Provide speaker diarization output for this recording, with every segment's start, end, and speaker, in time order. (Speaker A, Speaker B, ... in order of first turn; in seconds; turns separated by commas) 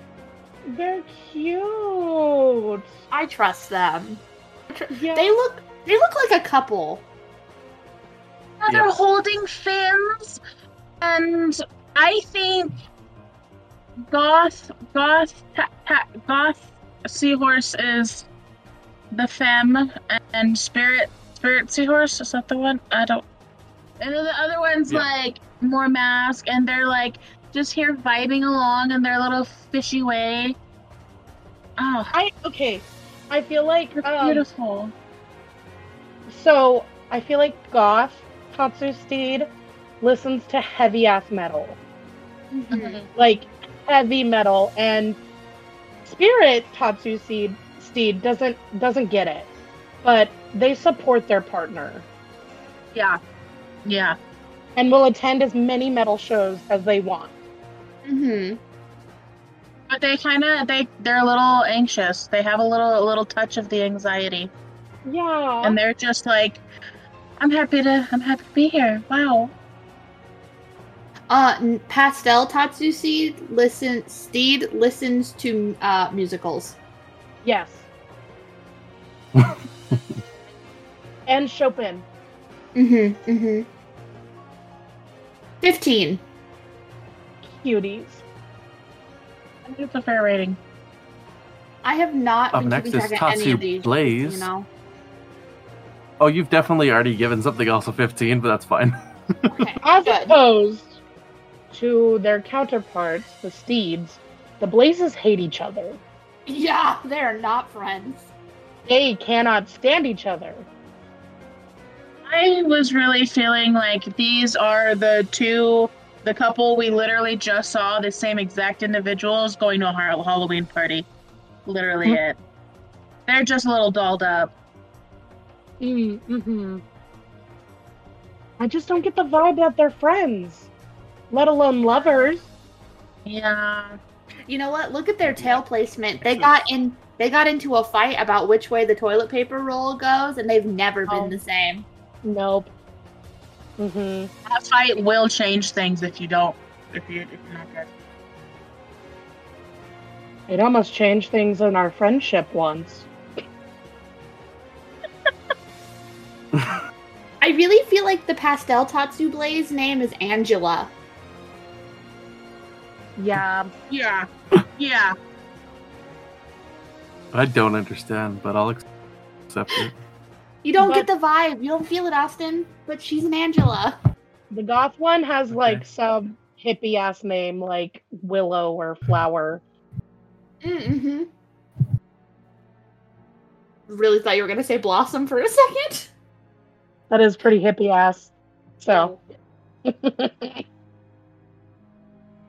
Speaker A: 0.7-2.9, Speaker B: 3.1-7.0, Speaker A: 4.9-5.4, Speaker C: 8.6-10.4, Speaker C: 11.0-12.8, Speaker C: 14.1-18.3, Speaker C: 19.1-23.2, Speaker C: 24.0-30.6, Speaker C: 31.8-32.1, Speaker A: 32.1-34.5, Speaker C: 34.0-34.9, Speaker A: 36.3-39.5, Speaker A: 40.0-41.8, Speaker B: 42.5-43.0, Speaker C: 42.7-43.0, Speaker A: 42.8-45.2, Speaker A: 46.0-49.5, Speaker A: 50.0-52.0, Speaker C: 53.8-54.1, Speaker A: 54.8-57.3, Speaker B: 58.0-58.6, Speaker C: 59.9-64.5, Speaker A: 65.0-65.8, Speaker C: 65.6-66.6, Speaker C: 67.4-69.5, Speaker B: 71.3-76.8, Speaker A: 77.4-77.9, Speaker D: 79.3-79.9, Speaker A: 81.3-82.0, Speaker B: 82.7-83.7, Speaker B: 85.6-86.2, Speaker A: 87.4-88.2, Speaker C: 89.6-90.6, Speaker B: 91.8-94.7, Speaker D: 92.5-94.5, Speaker D: 96.2-98.9, Speaker B: 99.5-100.4, Speaker A: 99.8-101.0, Speaker A: 101.7-106.0, Speaker B: 106.5-108.3, Speaker A: 108.9-110.7, Speaker C: 112.3-121.1, Speaker C: 121.6-122.4, Speaker C: 123.3-124.5, Speaker A: 125.8-126.8, Speaker A: 128.6-130.7, Speaker A: 131.3-132.5, Speaker C: 133.3-134.0, Speaker B: 134.5-141.9, Speaker D: 135.2-135.6, Speaker D: 136.2-136.5, Speaker A: 141.1-141.4, Speaker A: 142.2-142.7, Speaker A: 143.8-144.3, Speaker C: 144.5-147.9, Speaker A: 150.5-153.1, Speaker B: 157.4-160.9, Speaker A: 163.2-163.7, Speaker C: 163.9-165.1, Speaker D: 167.3-168.8, Speaker D: 169.5-169.9, Speaker B: 170.6-173.9, Speaker A: 170.8-171.1, Speaker A: 174.5-179.6, Speaker D: 175.5-175.8, Speaker B: 180.6-181.3, Speaker B: 183.9-186.1, Speaker A: 187.1-189.1, Speaker B: 188.9-189.2, Speaker A: 189.8-190.6